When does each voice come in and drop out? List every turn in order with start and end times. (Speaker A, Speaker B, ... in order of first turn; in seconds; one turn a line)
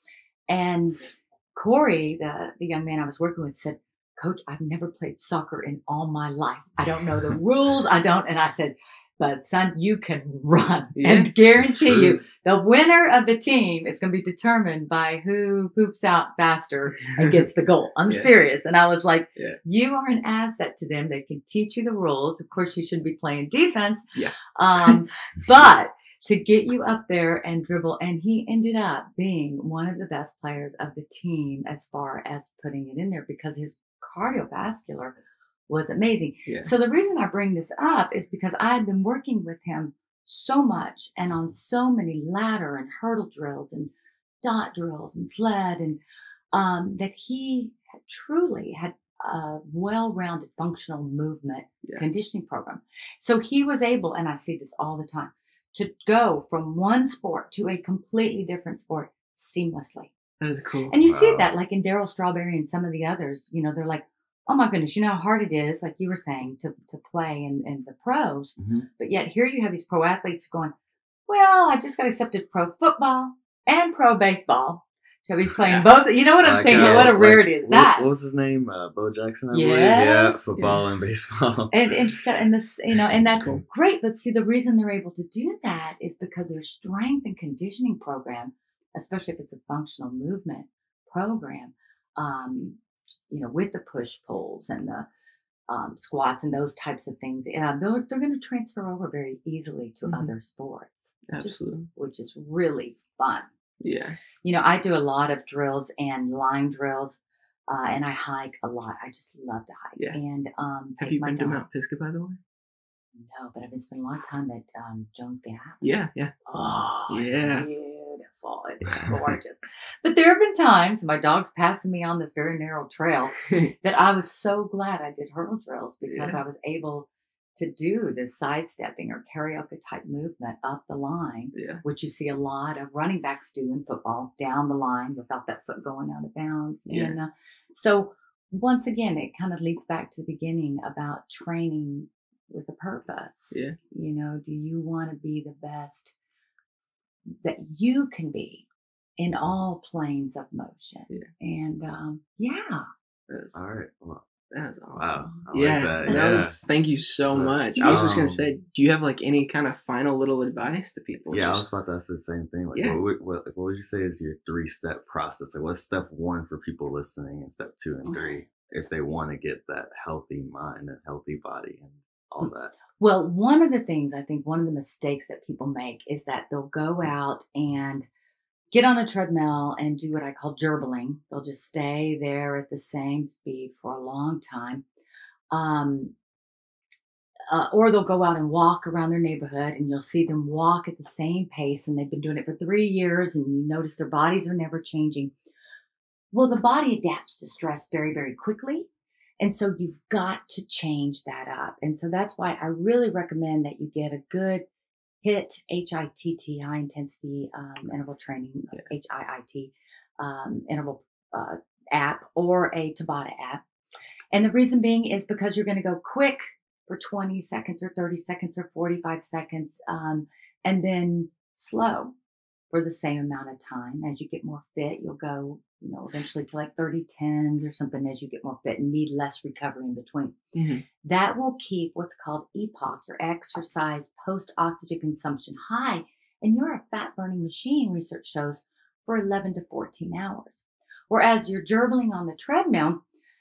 Speaker A: 0.5-35.1
Speaker B: 10.9-11.3
Speaker C: 11.5-12.2
Speaker B: 24.1-25.0
Speaker A: 35.7-43.9
Speaker A: 44.4-46.0
Speaker A: 46.5-60.1
Speaker B: 60.4-60.9
Speaker A: 60.9-70.7
Speaker C: 61.0-61.5
Speaker C: 68.6-68.8
Speaker A: 71.3-78.1
Speaker C: 76.4-81.9
Speaker B: 76.7-77.1
Speaker A: 79.5-80.4
Speaker B: 80.5-80.8
Speaker A: 81.7-92.8
Speaker C: 83.1-83.6
Speaker B: 83.3-83.6
Speaker A: 93.3-95.1
Speaker A: 95.7-103.5
Speaker B: 100.0-100.3
Speaker B: 101.3-101.9
Speaker B: 103.8-104.2
Speaker A: 104.4-111.6
Speaker B: 111.0-112.4
Speaker A: 113.1-115.8
Speaker B: 115.8-117.7
Speaker A: 116.5-146.1
Speaker B: 123.4-123.7
Speaker B: 126.1-126.4
Speaker B: 131.5-131.8
Speaker B: 136.9-137.2
Speaker A: 147.4-148.6
Speaker A: 149.2-152.9
Speaker B: 153.3-153.6
Speaker C: 153.5-154.2
Speaker B: 154.5-161.6
Speaker C: 154.9-156.6
Speaker A: 156.1-156.3
Speaker C: 157.2-158.4
Speaker A: 157.7-158.2
Speaker C: 161.3-172.7
Speaker B: 162.7-163.0
Speaker A: 173.0-178.1
Speaker A: 178.7-184.8
Speaker A: 185.5-186.1
Speaker A: 187.5-195.3
Speaker A: 196.3-198.9
Speaker A: 199.4-204.6
Speaker A: 205.2-213.6
Speaker A: 214.3-222.1
Speaker A: 222.7-230.3
Speaker B: 230.5-230.8
Speaker A: 231.0-243.0